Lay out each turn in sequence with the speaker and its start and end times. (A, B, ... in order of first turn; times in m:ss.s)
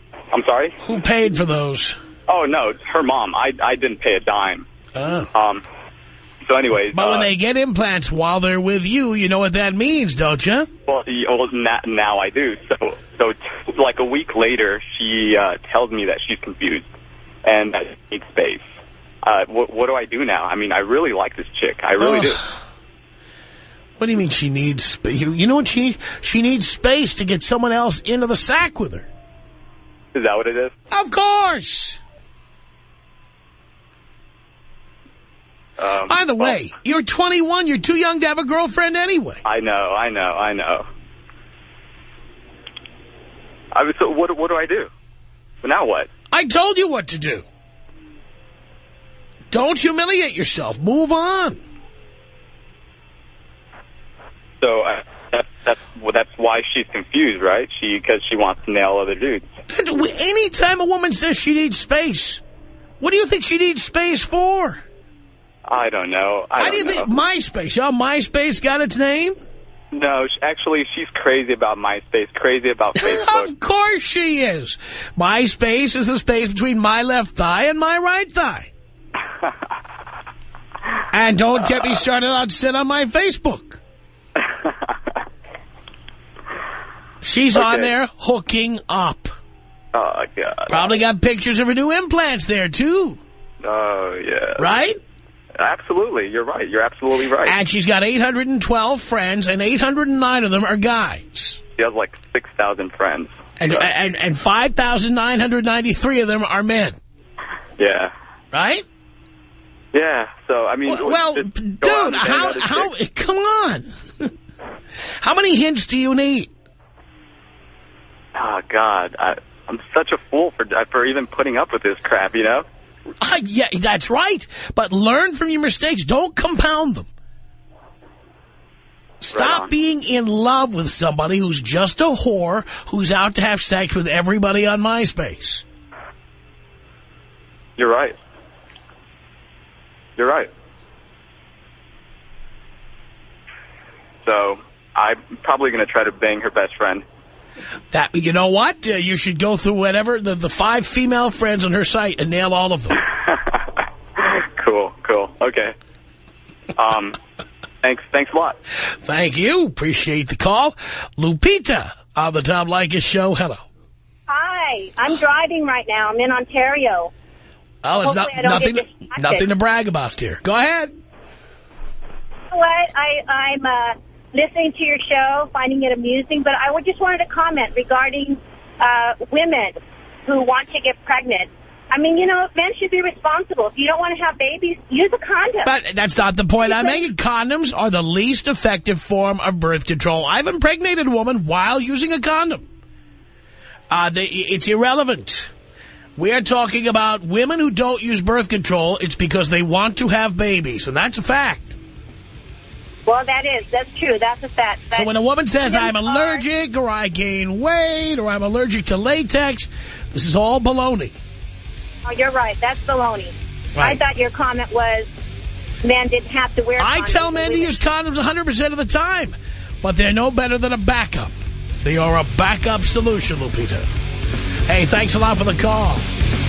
0:00.3-0:00.8 A
0:00.8-0:02.0 B
0:02.3-0:04.7 A
0:05.0-0:05.3 B
0:05.3-0:05.6 A
0:06.4-0:07.3 A
0:06.9-0:10.7 B
0:10.9-0:16.9 A
0:17.4-0:18.7 A
0:19.2-0:22.4 A
0:22.0-0:22.5 B
0:24.0-0:29.1 B
0:30.1-0:30.7 A
0:30.9-0:32.0 B
0:35.8-0:36.6 A
0:36.1-0:39.4 B
0:39.4-0:40.9 A
0:43.7-0:44.9 A
0:45.6-0:46.1 A
0:46.3-0:47.4 B
0:49.5-0:51.6 B
0:54.6-0:59.5 A
0:59.7-1:02.4 B
1:03.0-1:04.8 B
1:05.7-1:07.1 A
1:06.6-1:09.4 B
1:09.9-1:13.5 A
1:13.0-1:18.7 B
1:21.1-1:23.8 B
1:27.2-1:29.3 B
1:27.5-1:27.9 A
1:29.9-1:31.0 A
1:30.7-1:33.2 B
1:33.6-1:34.8 A
1:34.6-1:35.0 B
1:35.6-1:37.6 A
1:37.4-1:41.6 B
1:41.8-1:43.9 A
1:43.6-1:47.0 B
1:47.8-1:48.1 A
1:48.5-1:48.8 B
1:49.9-1:52.9 A
1:50.8-1:54.3 B
1:55.2-1:56.5 B
1:58.4-2:02.7 A
2:03.2-2:07.1 B
2:09.2-2:15.6 B
2:09.3-2:09.7 A
2:17.8-2:18.2 A
2:20.2-2:20.5 A
2:24.2-2:27.0 A
2:27.9-2:33.0 B
2:33.3-2:33.6 A
2:34.2-2:35.7 A
2:36.8-2:37.2 A
2:37.8-2:38.6 A
2:39.0-2:43.6 B
2:44.3-2:47.1 C
2:47.8-2:50.9 B
2:48.0-2:49.5 C
2:52.5-3:05.7 C
3:05.6-3:12.6 B
3:06.6-3:07.0 C
3:13.9-3:15.5 B
3:16.2-3:21.8 B
3:23.1-3:25.1 C
3:24.9-3:31.2 B
3:25.6-3:26.4 C
3:32.1-3:35.1 C
3:33.8-3:34.0 B
3:35.8-3:37.7 C
3:36.8-3:43.9 B
3:44.7-3:46.1 B